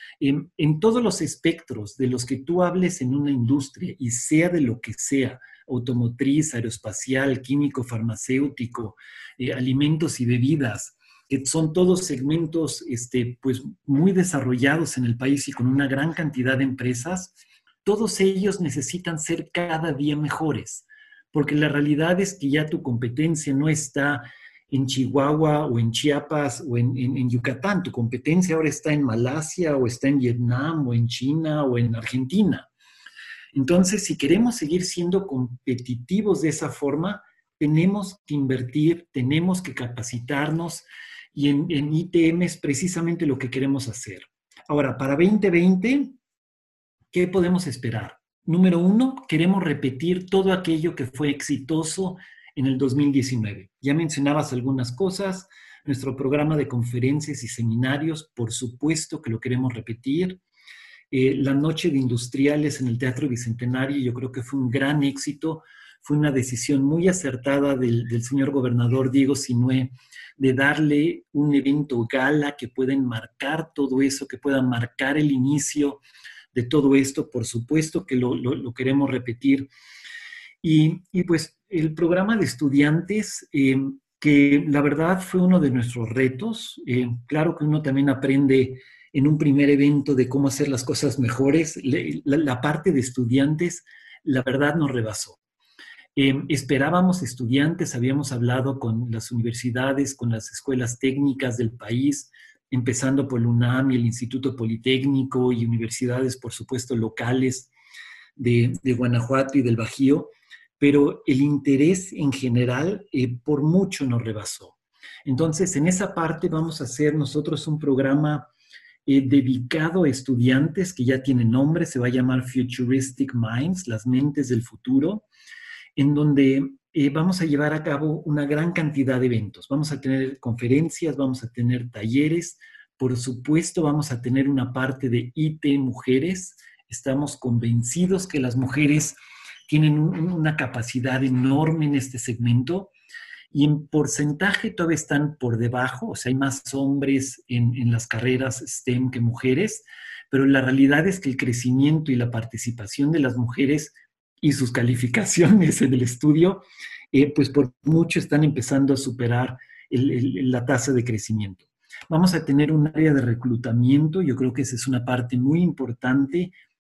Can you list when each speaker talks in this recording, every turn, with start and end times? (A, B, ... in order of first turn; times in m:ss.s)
0:00.2-0:32.7 A
0:33.5-0:46.1 A
0:47.1-1:00.4 A
1:01.1-1:16.0 A
1:16.5-1:19.7 A
1:20.6-1:35.4 A
1:36.2-1:47.7 A
1:48.4-1:58.5 A
1:59.0-2:05.2 A
2:06.0-2:22.9 A
2:23.5-2:46.5 A